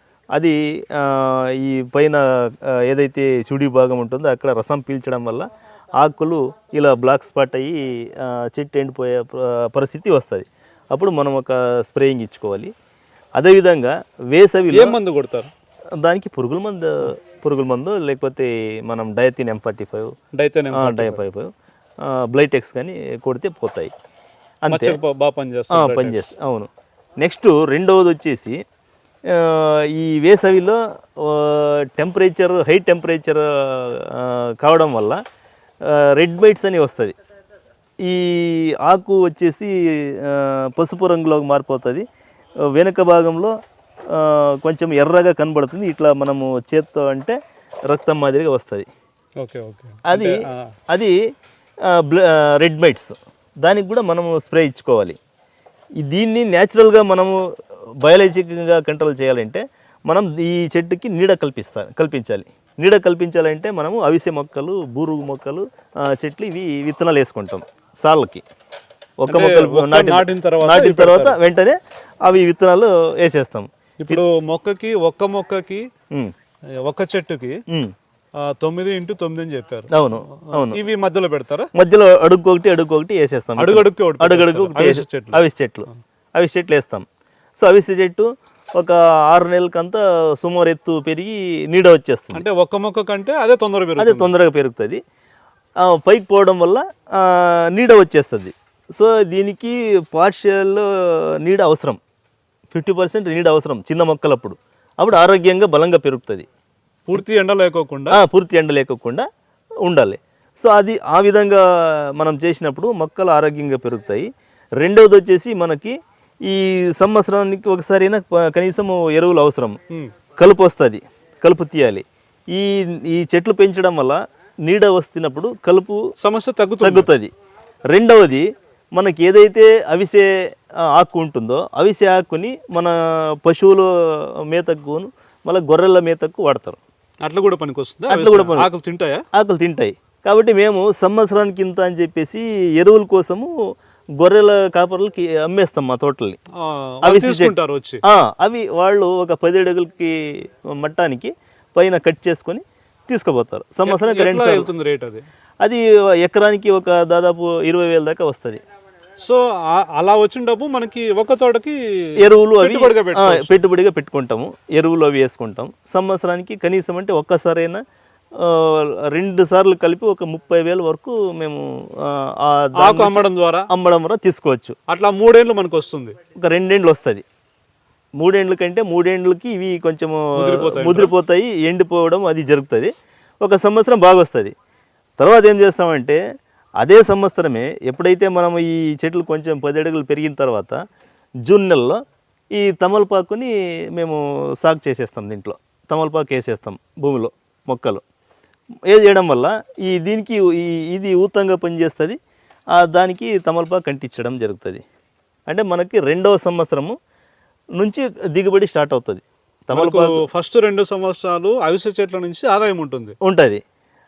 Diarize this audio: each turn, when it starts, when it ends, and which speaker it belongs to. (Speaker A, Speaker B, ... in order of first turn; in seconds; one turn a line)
Speaker A: 0.3-12.7
Speaker A: 13.4-15.0
Speaker B: 14.7-15.5
Speaker A: 16.0-20.1
Speaker B: 20.3-21.2
Speaker A: 20.7-21.5
Speaker A: 22.0-23.9
Speaker A: 24.6-25.0
Speaker B: 24.7-26.3
Speaker A: 25.7-26.7
Speaker A: 27.2-28.6
Speaker A: 29.3-35.2
Speaker A: 35.8-37.1
Speaker A: 38.0-42.0
Speaker A: 42.7-43.5
Speaker A: 44.1-47.4
Speaker A: 47.9-48.9
Speaker B: 49.4-50.7
Speaker A: 50.1-50.4
Speaker A: 50.9-51.2
Speaker A: 51.8-55.2
Speaker A: 56.0-57.4
Speaker A: 58.0-68.4
Speaker A: 69.2-74.2
Speaker B: 69.3-71.4
Speaker B: 74.0-75.9
Speaker B: 76.8-77.6
Speaker A: 77.7-77.9
Speaker B: 78.4-81.7
Speaker A: 79.9-80.8
Speaker A: 81.7-87.0
Speaker B: 83.6-86.0
Speaker A: 87.6-92.4
Speaker B: 92.3-94.3
Speaker A: 94.0-95.0
Speaker A: 95.8-102.0
Speaker A: 102.7-106.5
Speaker B: 107.1-108.2
Speaker A: 108.1-109.3
Speaker A: 109.8-114.2
Speaker A: 114.8-119.8
Speaker A: 120.4-126.0
Speaker B: 126.2-127.1
Speaker A: 126.8-127.3
Speaker A: 127.9-136.8
Speaker B: 137.2-139.2
Speaker A: 138.1-138.7
Speaker A: 139.3-143.5
Speaker A: 144.2-146.4
Speaker B: 146.6-148.0
Speaker A: 147.0-147.5
Speaker A: 148.0-154.7
Speaker B: 153.8-155.2
Speaker A: 155.6-158.6
Speaker B: 159.2-163.6
Speaker A: 162.2-167.8
Speaker A: 168.4-174.8
Speaker B: 172.8-173.7
Speaker B: 174.9-176.2
Speaker A: 176.3-177.2
Speaker A: 178.2-184.5
Speaker B: 180.3-181.1
Speaker A: 185.2-186.2
Speaker A: 186.8-190.8
Speaker A: 191.4-192.0
Speaker A: 192.5-198.0
Speaker A: 198.9-202.2
Speaker A: 202.7-204.8
Speaker A: 205.5-206.9
Speaker A: 207.8-210.2
Speaker B: 209.7-213.2
Speaker A: 213.2-213.6